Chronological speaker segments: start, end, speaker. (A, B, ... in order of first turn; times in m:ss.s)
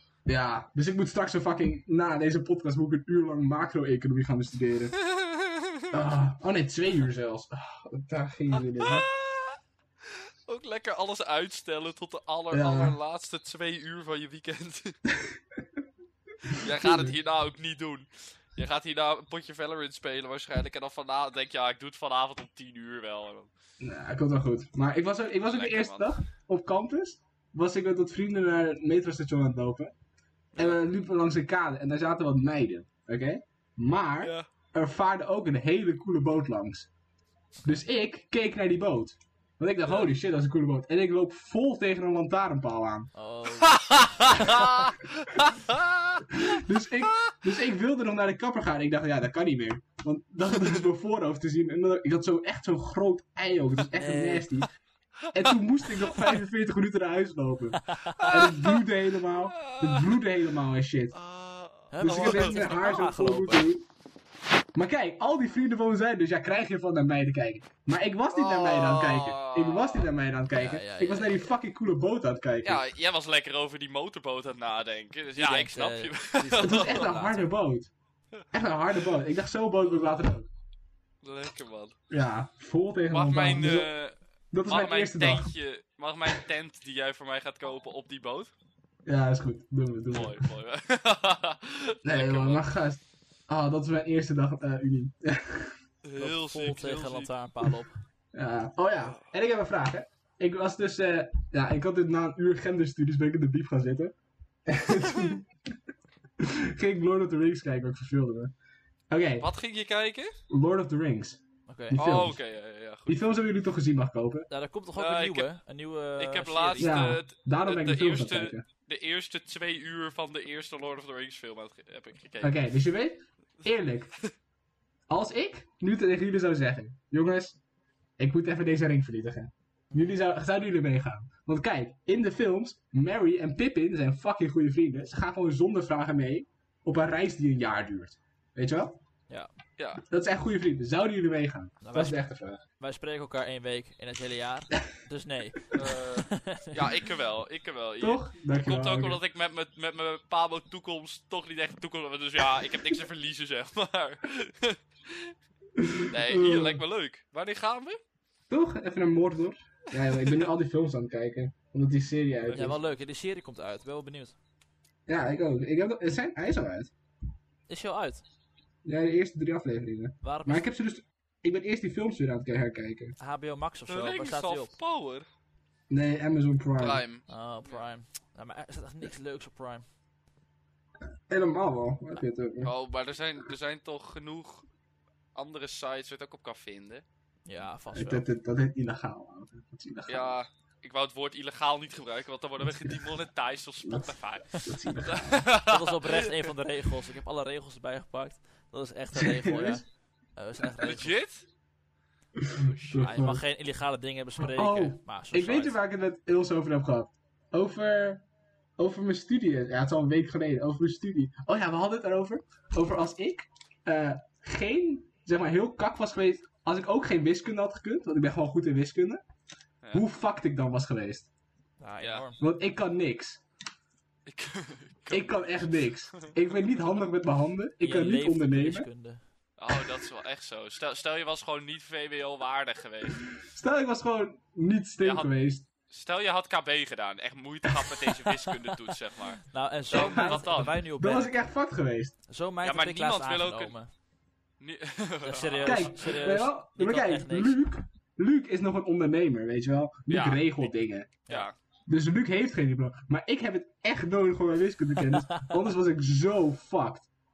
0:00.3-0:05.0 A
0:05.0-0:06.1 B
0:05.9-0:09.1 A
0:08.8-0:09.6 B
0:10.1-0:15.0 B
0:12.5-0:13.0 A
0:16.5-0:17.2 A
0:16.5-0:23.5 B
0:23.8-0:29.9 A
0:25.5-0:26.1 B
0:30.5-0:30.9 B
0:30.6-0:36.9 A
0:34.2-0:34.5 B
0:37.6-0:43.1 A
0:43.2-0:44.7 C
0:43.6-0:47.4 B
0:46.3-0:54.7 A
0:54.0-0:54.6 C
0:55.3-1:01.2 A
0:57.8-0:58.2 C
0:58.2-0:58.8 B
0:59.3-1:00.2 B
1:01.1-1:02.6 B
1:01.9-1:03.7 C
1:02.0-1:03.8 A
1:04.8-1:12.8 A
1:08.3-1:10.1 B
1:10.5-1:11.5 C
1:12.6-1:17.1 B
1:15.4-1:17.5 C
1:16.6-1:17.9 A
1:18.5-1:20.5 A
1:21.2-1:22.0 B
1:22.1-1:24.0 A
1:23.1-1:28.5 B
1:24.5-1:25.5 A
1:29.1-1:30.4 A
1:30.1-1:32.7 B
1:32.0-1:35.8 A
1:36.0-1:37.3 B
1:36.2-1:38.0 C
1:38.3-1:44.1 A
1:39.0-1:39.3 B
1:44.7-1:45.5 A
1:46.4-1:48.5 A
1:49.1-1:49.5 A
1:49.4-1:50.4 B
1:50.5-1:52.4 A
1:51.7-1:52.0 C
1:52.0-1:53.3 B
1:53.1-1:54.5 A
1:54.5-1:57.0 C
1:55.0-1:55.5 B
1:56.2-2:02.6 B
1:56.8-1:58.6 A
2:02.4-2:04.2 A
2:05.1-2:07.6 A
2:08.2-2:19.0 A
2:19.8-2:20.0 B
2:20.1-2:22.6 A
2:21.8-2:22.2 C
2:22.8-2:27.0 C
2:25.7-2:35.3 B
2:28.0-2:29.2 A
2:35.8-2:36.8 A
2:36.1-2:38.0 B
2:38.5-2:42.8 A
2:42.4-2:42.7 B
2:42.5-2:44.4 C
2:45.1-2:46.9 A
2:47.7-2:48.2 C
2:48.8-2:53.2 A
2:50.2-2:50.7 C
2:53.2-2:54.7 C
2:53.9-2:55.2 B
2:55.9-2:57.0 A
2:56.8-2:57.8 B
2:57.3-2:59.8 C
3:01.3-3:02.7 A
3:02.6-3:04.7 B
3:05.4-3:07.0 B
3:07.5-3:08.2 C
3:07.9-3:10.4 A
3:10.1-3:16.3 B
3:13.8-3:15.3 A
3:15.6-3:21.2 C
3:19.2-3:19.8 A
3:20.8-3:21.4 B
3:22.4-3:23.4 A
3:22.5-3:23.2 B
3:23.0-3:25.8 C
3:24.4-3:28.2 A
3:28.8-3:39.2 A
3:39.9-3:41.3 A
3:41.8-3:42.4 C
3:42.0-3:42.3 B
3:42.4-3:43.4 A
3:44.3-3:46.4 B
3:45.1-3:48.9 A
3:47.8-3:49.2 C
3:49.6-3:53.3 B
3:53.4-3:55.7 A
3:55.0-3:55.3 B
3:55.9-4:00.8 B
3:59.4-4:01.3 C
3:59.9-4:02.2 A
4:02.3-4:03.9 C
4:02.6-4:03.7 B
4:04.6-4:06.1 B
4:05.2-4:07.6 C
4:05.6-4:11.2 A
4:10.1-4:10.7 B
4:11.3-4:11.6 B
4:11.9-4:17.1 A